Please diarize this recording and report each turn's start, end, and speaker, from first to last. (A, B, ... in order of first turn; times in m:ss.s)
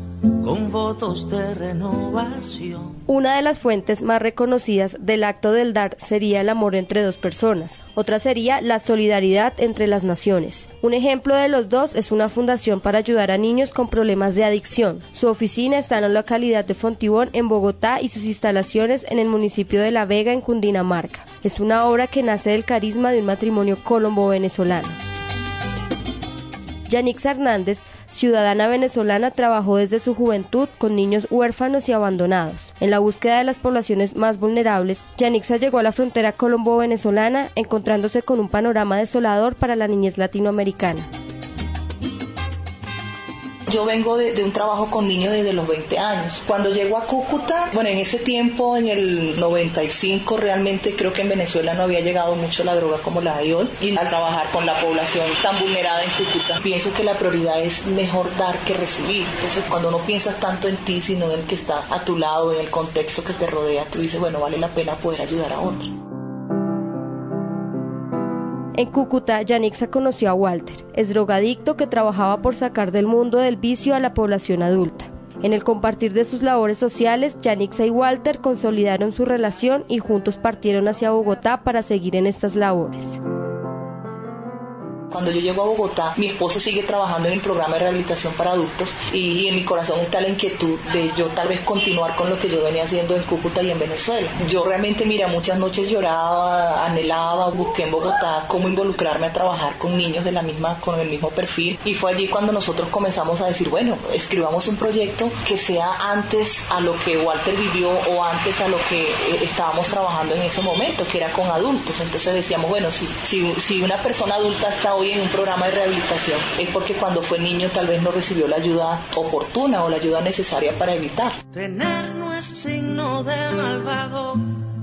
0:00.4-0:03.0 A
0:03.1-0:25.0 B
0:26.9-0:41.1 B
0:43.7-1:06.0 C
1:08.8-1:23.2 B
1:25.1-2:01.4 C
2:01.5-2:04.6 A